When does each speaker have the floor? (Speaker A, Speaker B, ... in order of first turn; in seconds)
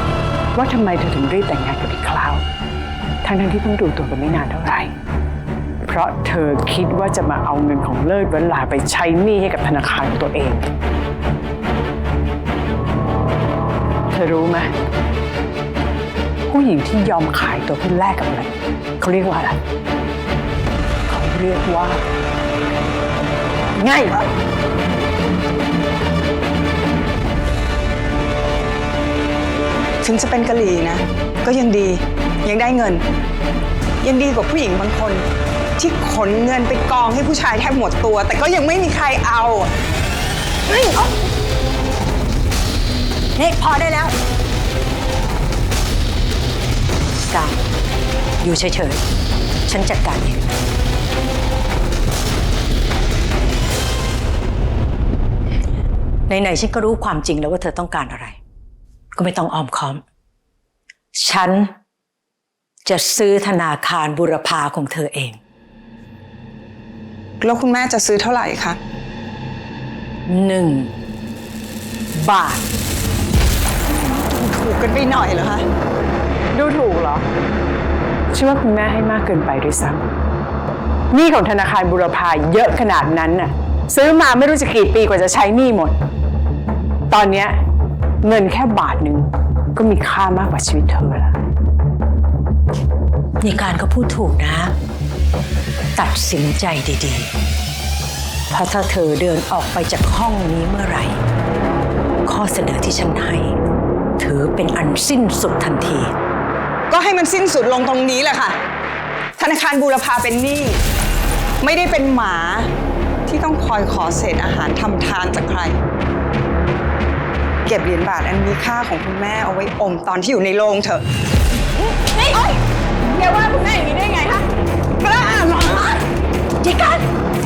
Speaker A: 0.5-2.4, 3.2-4.9, 5.8-10.7, 14.1-14.7, 16.5-19.6, 21.1-22.0, 23.8-24.3, 76.5-77.3, 78.3-80.0, 81.1-86.0, 87.1-87.5, 88.2-91.3
Speaker B: 30.0-33.0, 34.0-35.2, 35.8-39.7, 67.4-68.8, 73.9-75.6, 106.9-108.6, 109.4-110.8, 111.6-112.7, 113.2-115.8, 117.6-121.0, 122.0-122.6, 123.1-124.5, 125.0-126.0
Speaker C: 40.7-41.1, 43.4-44.1, 47.3-47.6, 48.4-49.0, 49.7-50.5, 56.3-58.4, 59.1-60.0, 61.2-61.7, 62.9-65.4, 70.3-70.9, 72.1-72.7, 93.4-94.7, 95.9-97.3, 98.5-101.2, 102.2-103.6, 104.2-106.1, 126.6-127.0